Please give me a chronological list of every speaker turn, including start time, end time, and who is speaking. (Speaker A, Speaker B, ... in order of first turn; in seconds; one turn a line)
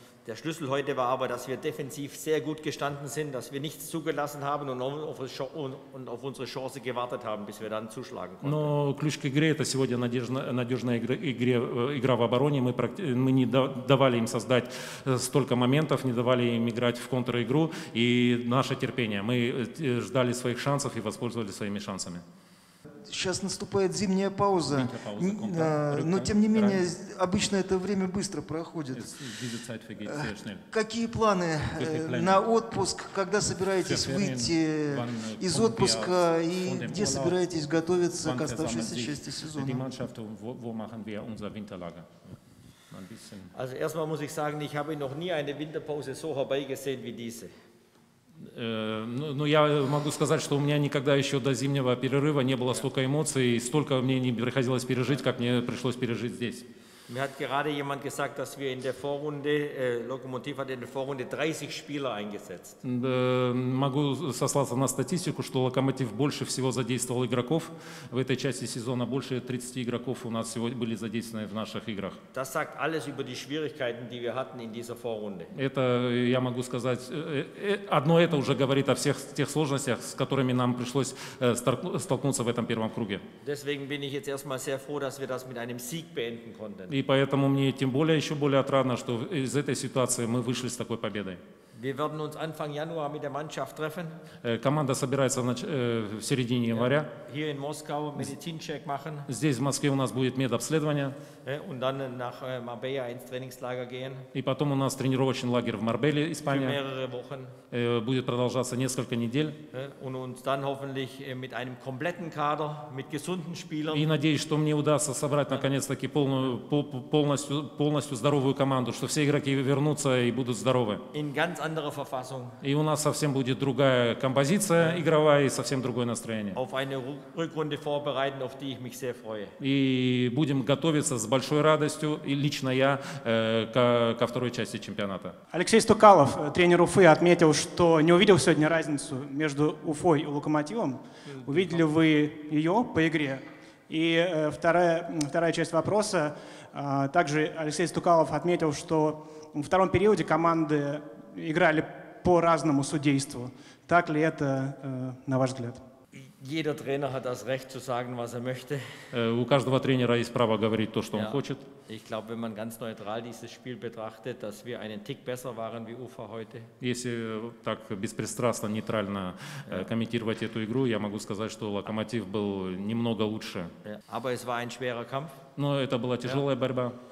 Speaker A: 0.2-8.7
Speaker B: 8.4-22.2
Speaker C: 23.1-29.1
Speaker B: 24.7-26.9
Speaker B: 28.9-30.6
Speaker C: 30.1-39.9
Speaker B: 31.8-32.4
Speaker B: 33.8-37.4
Speaker B: 38.2-42.1
Speaker B: 42.9-43.5
Speaker A: 43.5-47.5
Speaker B: 48.4-56.6
Speaker A: 57.1-62.8
Speaker B: 62.8-72.2
Speaker A: 72.3-75.5
Speaker B: 75.5-83.2
Speaker A: 83.4-87.0
Speaker B: 86.9-91.4
Speaker A: 91.7-94.2
Speaker B: 94.4-97.1
Speaker A: 96.7-99.3
Speaker B: 99.3-101.2
Speaker A: 101.4-104.3
Speaker B: 104.3-106.8
Speaker A: 106.4-107.5
Speaker B: 107.7-109.6
Speaker A: 109.7-114.1
Speaker B: 113.9-121.0
Speaker A: 121.1-122.6
Speaker B: 122.6-126.6
Speaker A: 126.5-129.6
Speaker B: 129.6-135.3
Speaker D: 135.5-155.8
Speaker A: 141.3-141.8
Speaker A: 156.1-158.9
Speaker B: 159.1-161.6
Speaker A: 161.1-166.7
Speaker B: 166.8-173.7
Speaker A: 173.8-175.4
Speaker B: 175.6-177.0